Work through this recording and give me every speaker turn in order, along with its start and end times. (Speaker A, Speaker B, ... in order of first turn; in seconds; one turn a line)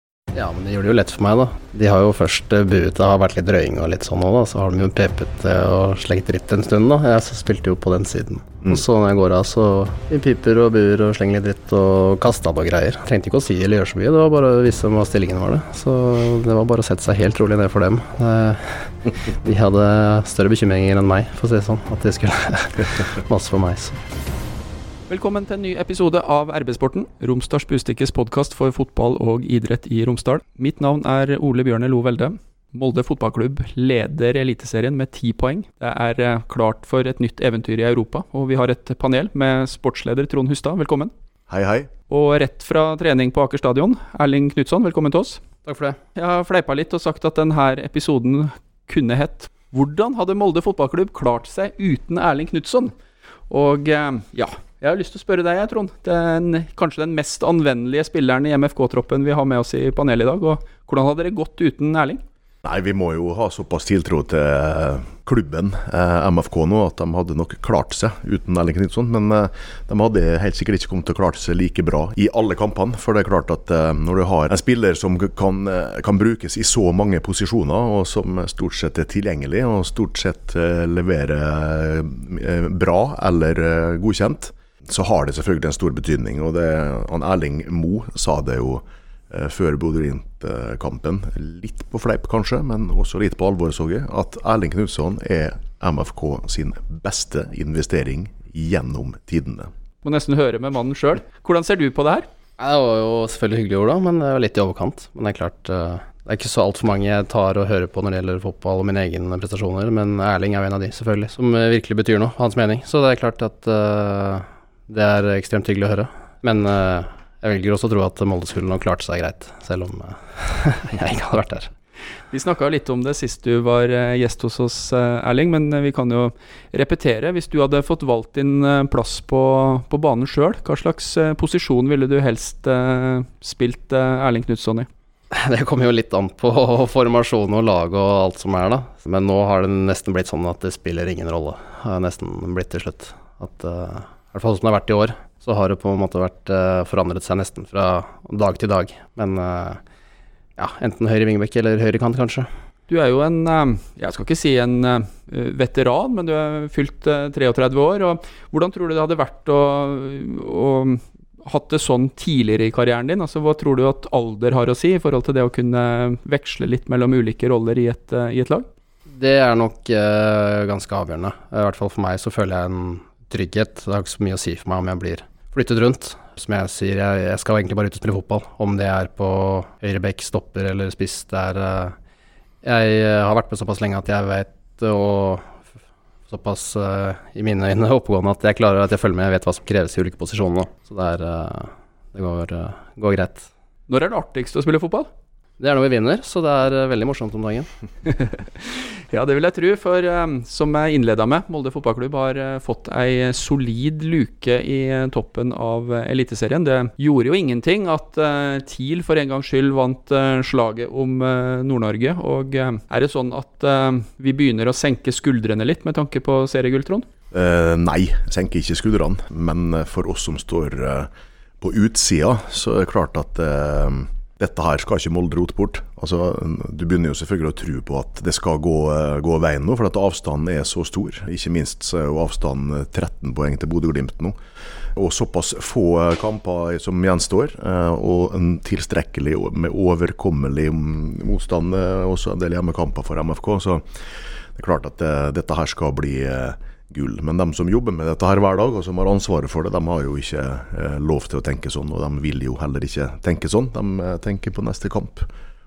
Speaker A: 0.3-24.0
Speaker B: 25.1-41.1
Speaker C: 41.5-41.9
Speaker B: 42.1-45.4
Speaker A: 45.6-46.0
Speaker B: 46.1-52.9
Speaker B: 53.5-62.2
Speaker C: 62.6-99.7
Speaker B: 100.0-102.3
Speaker A: 102.6-121.7
Speaker B: 122.3-134.9
Speaker A: 135.3-149.8
Speaker A: 150.6-152.5
Speaker B: 152.9-168.7
Speaker A: 169.1-181.9
Speaker A: 182.6-185.6
Speaker A: 186.3-193.5
Speaker B: 193.9-195.1
Speaker A: 195.6-197.7
Speaker B: 198.1-217.1
Speaker C: 217.3-234.4
Speaker C: 234.9-244.0
Speaker C: 244.5-255.3